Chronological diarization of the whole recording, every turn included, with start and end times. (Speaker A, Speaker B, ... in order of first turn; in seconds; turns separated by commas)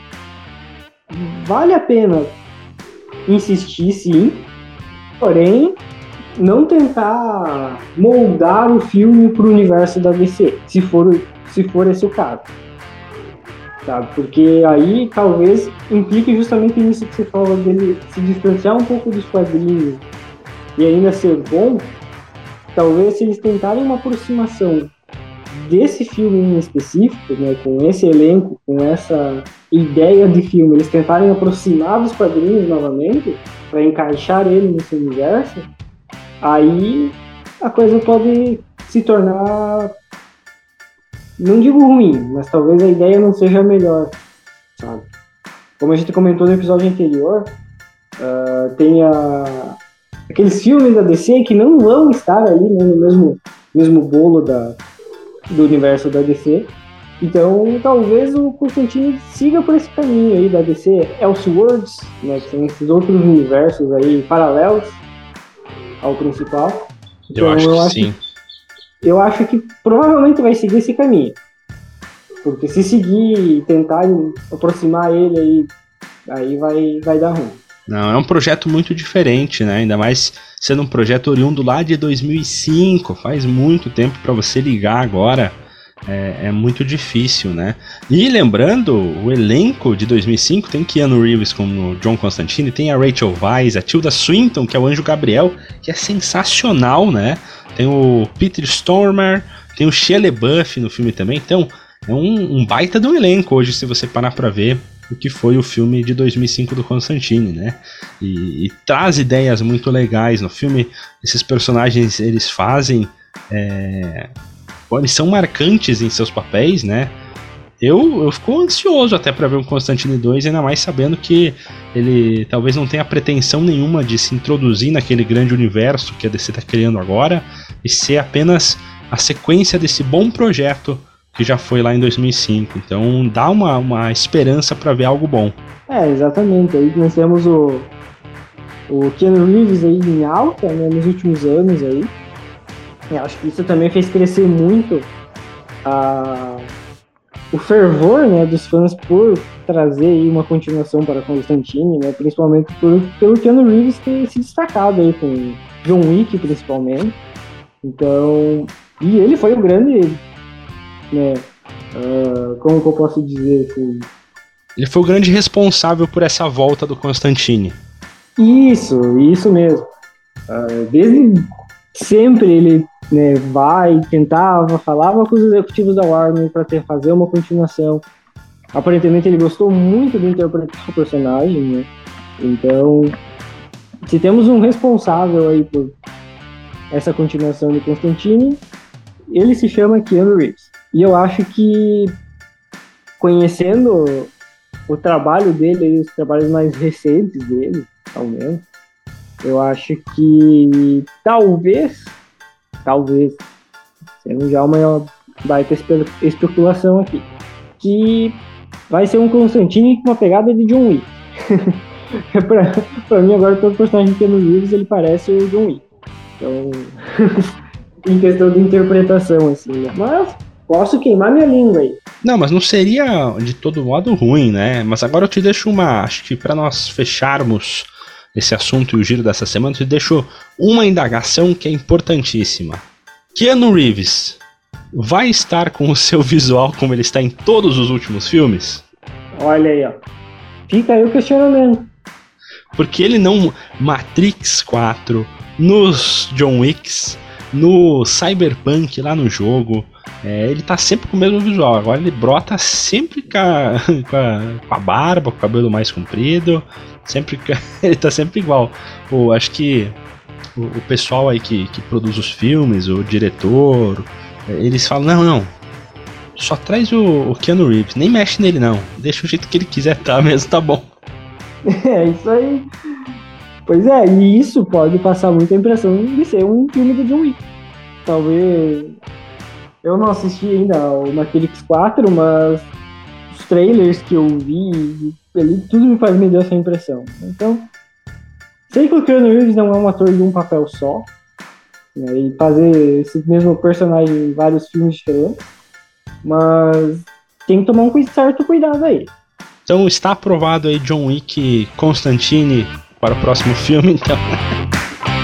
Speaker A: 1.1-2.4, Speaker A: 3.3-4.5, Speaker A: 5.2-5.8, Speaker A: 6.4-12.5, Speaker A: 13.8-20.1, Speaker A: 20.8-22.0, Speaker A: 22.8-24.9, Speaker A: 25.5-35.7, Speaker A: 36.4-39.9, Speaker A: 41.4-44.2, Speaker A: 44.8-45.1, Speaker A: 45.8-47.5, Speaker A: 48.2-49.7, Speaker A: 50.3-54.8, Speaker A: 55.5-65.0, Speaker A: 66.0-68.2, Speaker B: 67.3-68.2, Speaker A: 69.0-71.4, Speaker A: 72.4-75.7, Speaker A: 76.3-77.6, Speaker B: 77.9-114.3, Speaker B: 114.9-117.2, Speaker B: 117.8-135.6, Speaker A: 135.9-137.9, Speaker A: 138.9-142.1, Speaker A: 143.1-145.1, Speaker A: 145.8-146.7, Speaker A: 147.5-157.2, Speaker A: 157.8-160.2, Speaker A: 161.1-164.1, Speaker B: 164.8-167.8, Speaker A: 168.4-169.8, Speaker A: 170.5-178.1, Speaker A: 178.7-183.1, Speaker A: 184.1-185.9, Speaker A: 186.9-188.6, Speaker A: 189.3-192.1, Speaker A: 193.2-194.3, Speaker A: 194.9-198.7, Speaker A: 199.4-202.2, Speaker A: 202.8-203.4, Speaker A: 204.2-207.3, Speaker A: 207.8-211.1, Speaker A: 212.3-215.8, Speaker A: 216.4-216.9, Speaker A: 218.0-222.0, Speaker B: 222.2-234.4, Speaker B: 234.9-238.9, Speaker A: 239.4-240.0, Speaker A: 240.7-241.9, Speaker B: 242.8-260.0, Speaker B: 260.6-265.5, Speaker B: 266.4-270.9, Speaker A: 271.7-272.6, Speaker A: 273.7-277.4, Speaker A: 278.1-278.9, Speaker A: 279.8-282.7, Speaker A: 283.3-287.7, Speaker A: 288.7-291.1, Speaker A: 291.9-295.4, Speaker A: 296.2-299.1, Speaker B: 299.7-304.2